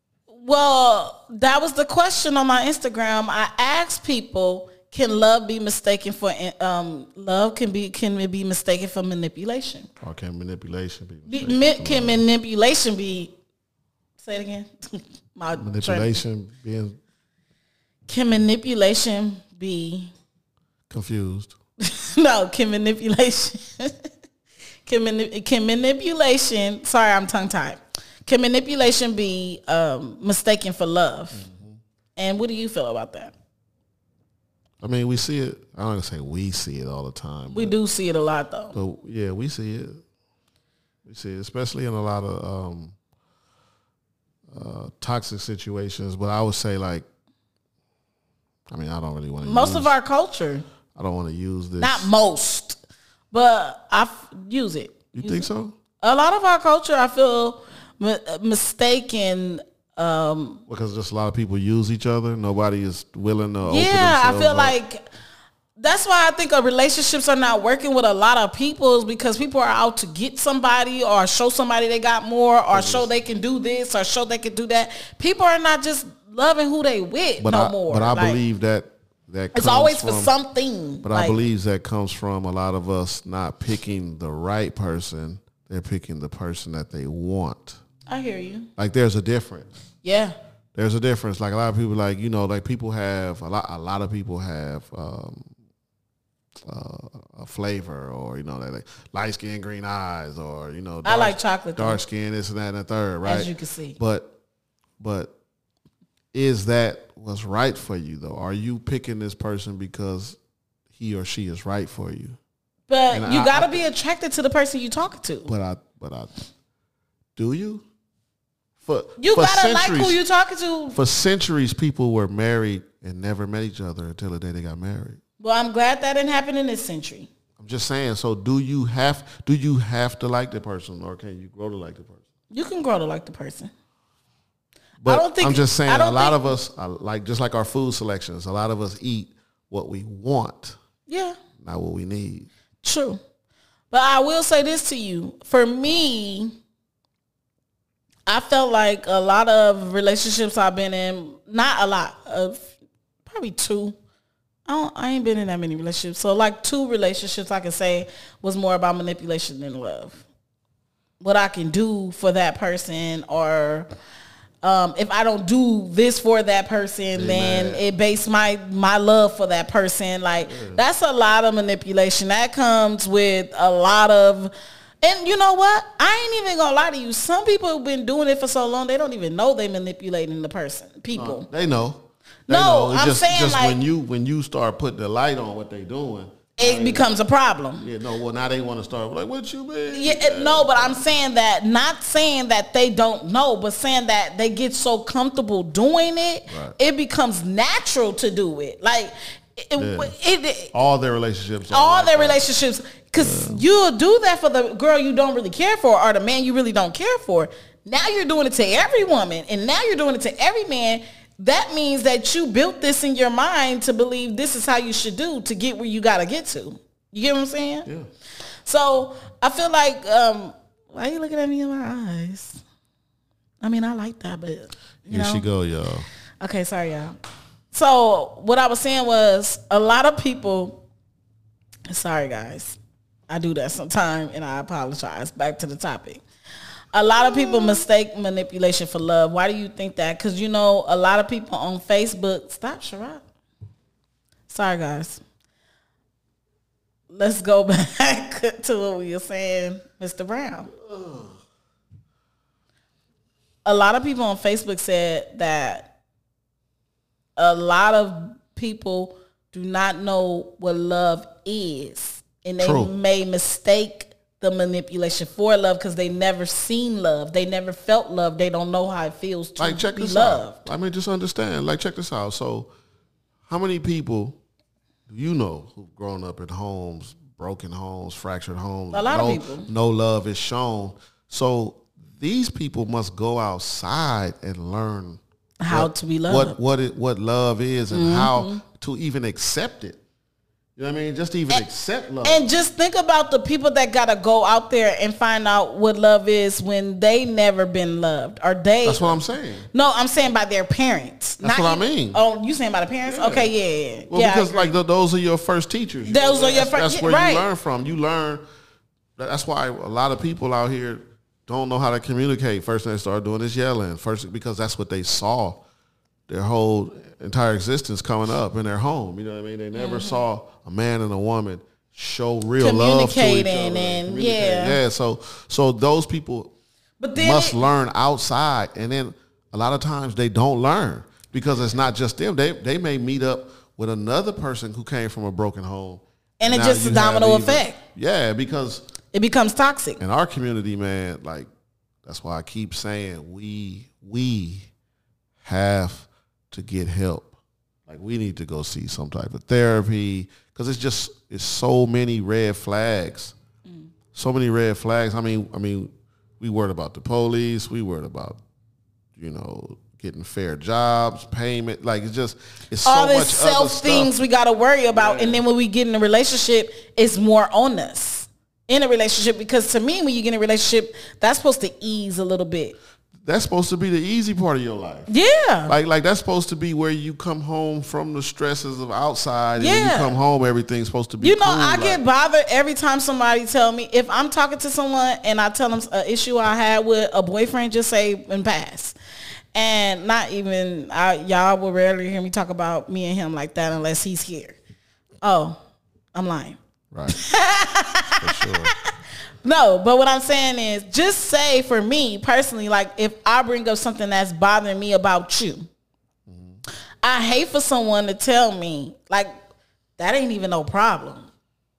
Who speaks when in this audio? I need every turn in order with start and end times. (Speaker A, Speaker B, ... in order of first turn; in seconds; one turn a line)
Speaker A: 0.3-9.9
Speaker B: 10.0-12.2
Speaker A: 11.3-13.3
Speaker A: 14.2-16.2
Speaker B: 15.6-17.0
Speaker A: 18.1-20.1
Speaker B: 20.9-21.5
Speaker A: 21.8-23.9
Speaker A: 24.9-31.4
Speaker B: 31.3-31.8
Speaker A: 32.2-33.3
Speaker B: 34.8-37.7
Speaker A: 37.5-38.8
Speaker B: 38.7-40.0
Speaker B: 41.0-43.0
Speaker B: 44.5-47.1
Speaker B: 48.7-49.9
Speaker A: 49.4-50.6
Speaker B: 51.0-52.1
Speaker A: 51.8-52.8
Speaker A: 53.3-55.5
Speaker B: 55.1-55.8
Speaker A: 56.0-60.6
Speaker B: 60.7-64.8
Speaker A: 63.6-65.0
Speaker A: 65.8-78.4
Speaker B: 72.7-73.1
Speaker B: 77.4-80.3
Speaker A: 79.5-81.4
Speaker B: 81.0-87.8
Speaker A: 88.1-88.7
Speaker B: 88.8-89.7
Speaker A: 90.0-90.3
Speaker B: 90.8-95.5
Speaker B: 96.7-104.3
Speaker A: 101.0-102.0
Speaker A: 103.2-104.0
Speaker B: 105.0-105.3
Speaker B: 106.3-110.4
Speaker B: 110.9-112.4
Speaker A: 112.9-115.5
Speaker B: 113.1-113.8
Speaker B: 115.5-116.4
Speaker B: 117.4-117.8
Speaker B: 118.8-120.2
Speaker A: 119.2-121.0
Speaker B: 120.9-125.2
Speaker A: 125.4-127.3
Speaker B: 127.6-132.2
Speaker A: 132.5-133.7
Speaker A: 135.0-136.4
Speaker B: 135.0-140.8
Speaker A: 141.1-141.4
Speaker B: 141.6-142.5
Speaker A: 142.8-143.2
Speaker A: 143.9-146.5
Speaker A: 148.3-152.7
Speaker A: 153.3-154.0
Speaker A: 154.7-160.2
Speaker A: 161.2-163.9
Speaker A: 164.6-181.5
Speaker B: 167.1-167.8
Speaker B: 170.4-170.8
Speaker B: 181.1-187.2
Speaker A: 182.5-183.8
Speaker A: 186.6-187.9
Speaker B: 187.8-191.0
Speaker A: 189.9-200.7
Speaker B: 196.5-196.8
Speaker B: 199.8-200.2
Speaker B: 200.7-202.4
Speaker A: 201.7-217.9
Speaker B: 203.2-203.6
Speaker A: 218.7-222.6
Speaker A: 223.6-225.5
Speaker B: 225.1-226.1
Speaker A: 226.4-227.2
Speaker A: 227.7-230.8
Speaker A: 231.9-232.8
Speaker A: 233.3-236.2
Speaker A: 236.9-243.2
Speaker A: 244.5-245.2
Speaker A: 247.1-250.7
Speaker B: 250.7-251.4
Speaker A: 253.7-255.9
Speaker A: 257.4-270.6
Speaker B: 262.6-262.9
Speaker B: 269.6-272.7
Speaker B: 273.5-274.4
Speaker B: 275.1-290.0
Speaker A: 278.9-279.7
Speaker A: 285.6-286.6
Speaker A: 287.9-288.6
Speaker B: 290.8-292.5
Speaker A: 292.2-299.2
Speaker B: 298.8-299.7
Speaker A: 299.7-304.8
Speaker B: 301.4-302.2
Speaker B: 303.1-303.5
Speaker B: 304.1-308.4
Speaker A: 306.1-307.5
Speaker B: 309.2-315.6
Speaker B: 316.3-326.5
Speaker A: 319.8-320.2
Speaker A: 322.6-324.8
Speaker A: 327.0-327.6
Speaker B: 327.1-338.9
Speaker A: 336.4-337.8
Speaker A: 339.1-340.0
Speaker B: 340.0-341.5
Speaker B: 342.1-344.7
Speaker B: 345.4-347.3
Speaker B: 347.9-353.4
Speaker B: 354.1-358.4
Speaker B: 359.2-364.1
Speaker A: 362.9-372.8
Speaker B: 364.9-365.4
Speaker B: 373.2-375.1
Speaker A: 375.1-375.7
Speaker B: 375.7-382.0
Speaker A: 379.6-380.1
Speaker A: 381.2-389.0
Speaker A: 389.5-394.6
Speaker A: 395.2-395.6
Speaker A: 396.1-398.9
Speaker B: 396.9-397.2
Speaker B: 398.2-398.7
Speaker A: 399.4-405.7
Speaker B: 406.3-406.6
Speaker A: 407.0-409.3
Speaker A: 410.0-411.3